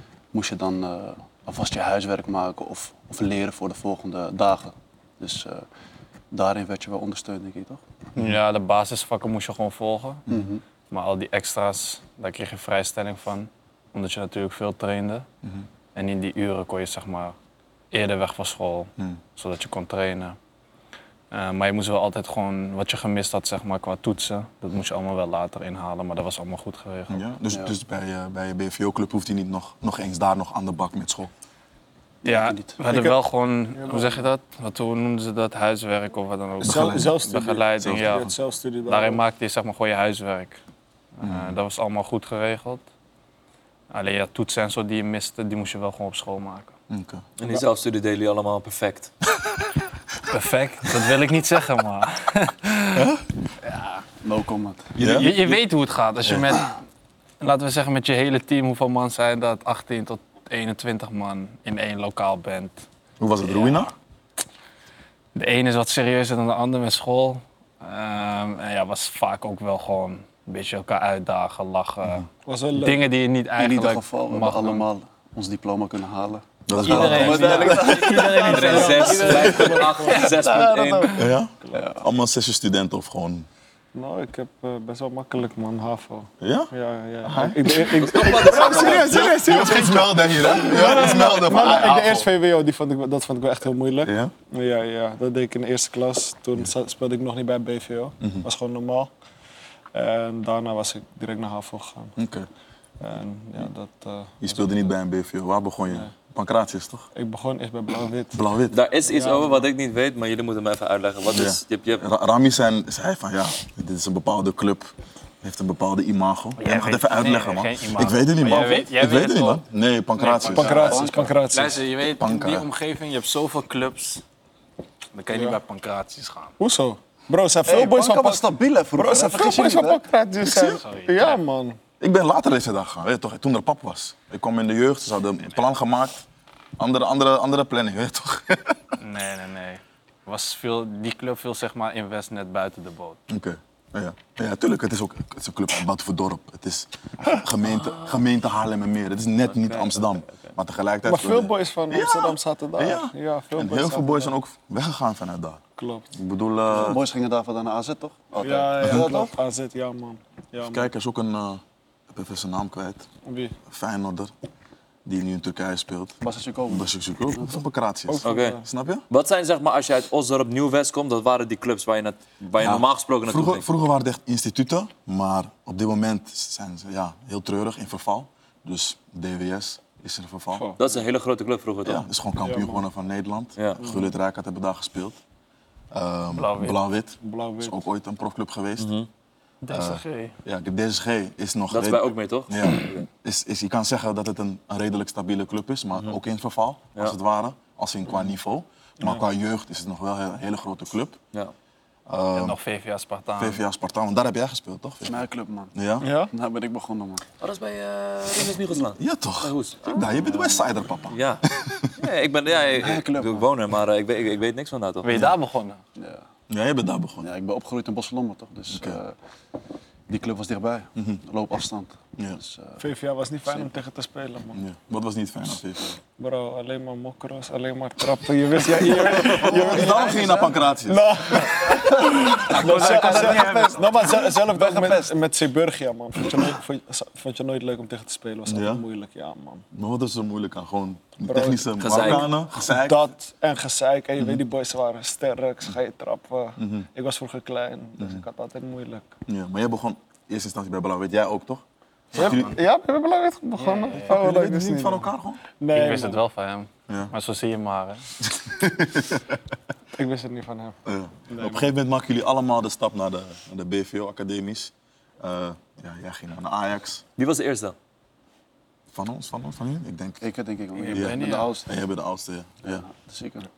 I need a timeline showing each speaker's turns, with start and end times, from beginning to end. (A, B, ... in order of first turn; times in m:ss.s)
0:00.3-0:05.6 A
0:06.3-0:07.8 A
0:08.2-0:10.2 B
0:10.3-0:10.6 A
0:10.9-0:15.2 B
0:15.9-0:17.3 B
0:17.9-0:20.4 B
0:21.3-0:27.3 B
0:27.1-0:31.3 C
0:27.5-0:27.7 A
0:32.2-0:32.8 A
0:32.2-0:38.3 B
0:32.9-0:33.2 D
0:33.8-0:34.2 D
0:36.6-0:39.2 D
0:36.6-0:38.3 C
0:38.8-0:40.6 B
0:41.2-0:42.8 B
0:41.2-0:41.6 C
0:43.9-0:46.7 B
0:46.9-0:47.2 C
0:47.4-0:49.1 E
0:50.3-0:53.1 B
0:52.9-0:53.2 C
0:53.6-0:54.0 B
0:54.2-0:55.0 A
0:55.0-0:56.8 B
0:55.0-0:55.6 C
0:57.4-1:02.8 B
1:03.2-1:03.9 C
1:03.4-1:03.9 B
1:05.3-1:14.8 B
1:12.4-1:13.0 D
1:13.6-1:19.5 A
1:16.7-1:17.8 C
1:16.8-1:20.4 B
1:17.2-1:21.8 D
1:18.3-1:21.2 E
1:21.1-1:23.5 C
1:21.7-1:22.0 A
1:23.9-1:39.1 D
1:26.4-1:26.7 C
1:27.2-1:32.3 C
1:28.2-1:29.1 E
1:34.0-1:34.3 C
1:38.2-1:38.4 C
1:39.9-1:42.1 D
1:42.2-1:42.5 C
1:43.0-1:44.7 D
1:44.4-1:47.1 C
1:47.1-1:48.4 D
1:48.3-1:48.8 C
1:48.7-1:52.0 E
1:49.1-1:49.6 D
1:51.3-2:01.3 C
1:56.6-1:59.6 B
2:00.2-2:04.2 B
2:00.5-2:01.8 D
2:00.6-2:01.2 A
2:02.1-2:02.7 C
2:05.1-2:06.5 B
2:05.3-2:05.6 D
2:06.6-2:08.4 D
2:07.6-2:10.0 A
2:09.0-2:11.8 D
2:10.5-2:11.4 B
2:12.0-2:16.2 C
2:16.8-2:18.9 C
2:19.0-2:23.2 B
2:23.3-2:35.6 C
2:27.7-2:28.2 E
2:29.6-2:30.2 E
2:31.1-2:34.3 D
2:35.8-2:36.1 D
2:36.1-2:37.0 C
2:36.7-2:39.1 A
2:38.4-2:40.9 D
2:38.8-2:39.3 C
2:40.6-2:43.1 C
2:43.2-2:43.6 D
2:43.7-2:44.3 C
2:45.0-2:46.2 C
2:46.2-2:47.5 A
2:46.7-2:49.0 C
2:48.1-2:48.6 D
2:48.2-2:53.6 E
2:52.6-3:00.7 C
3:00.8-3:02.0 E
3:01.8-3:05.2 C
3:02.4-3:02.8 D
3:03.6-3:03.8 E
3:03.8-3:04.1 D
3:05.9-3:08.9 C
3:06.3-3:06.8 B
3:07.2-3:07.8 D
3:08.8-3:09.1 E
3:09.6-3:10.4 B
3:09.7-3:21.2 C
3:11.7-3:13.1 E
3:22.1-3:22.6 C
3:22.3-3:23.6 B
3:23.4-3:26.1 C
3:25.0-3:27.2 A
3:26.0-3:26.3 D
3:27.4-3:29.0 E
3:28.9-3:31.9 C
3:29.8-3:35.1 E
3:32.6-3:33.5 A
3:35.0-3:35.8 B
3:35.1-3:35.3 C
3:36.0-3:36.2 A
3:36.5-3:37.3 C
3:37.2-3:39.2 A
3:38.7-3:39.0 C
3:40.1-3:42.8 A
3:41.0-3:41.2 C
3:42.8-3:44.6 D
3:44.5-3:46.0 C
3:46.2-3:59.6 D
3:48.9-3:51.5 C
3:49.4-3:50.5 A
3:52.4-3:53.9 E
3:52.5-3:55.2 A
3:58.4-3:58.8 C
3:59.7-4:03.1 C
4:01.2-4:09.1 D
4:01.8-4:02.3 E
4:04.2-4:04.4 C
4:06.6-4:06.9 C
4:08.0-4:08.2 C
4:09.3-4:12.5 C
4:12.1-4:16.2 D
4:12.2-4:12.5 B
4:13.6-4:14.2 B
4:13.9-4:15.4 C
4:15.7-4:18.1 B
4:16.9-4:17.1 C
4:18.2-4:19.4 C
4:19.9-4:20.8 D
4:20.8-4:27.0 C
4:21.3-4:21.7 D
4:27.2-4:27.7 E
4:28.9-4:30.2 C
4:30.2-4:31.8 A
4:30.8-4:31.5 B
4:30.9-4:32.8 C
4:32.6-4:33.5 A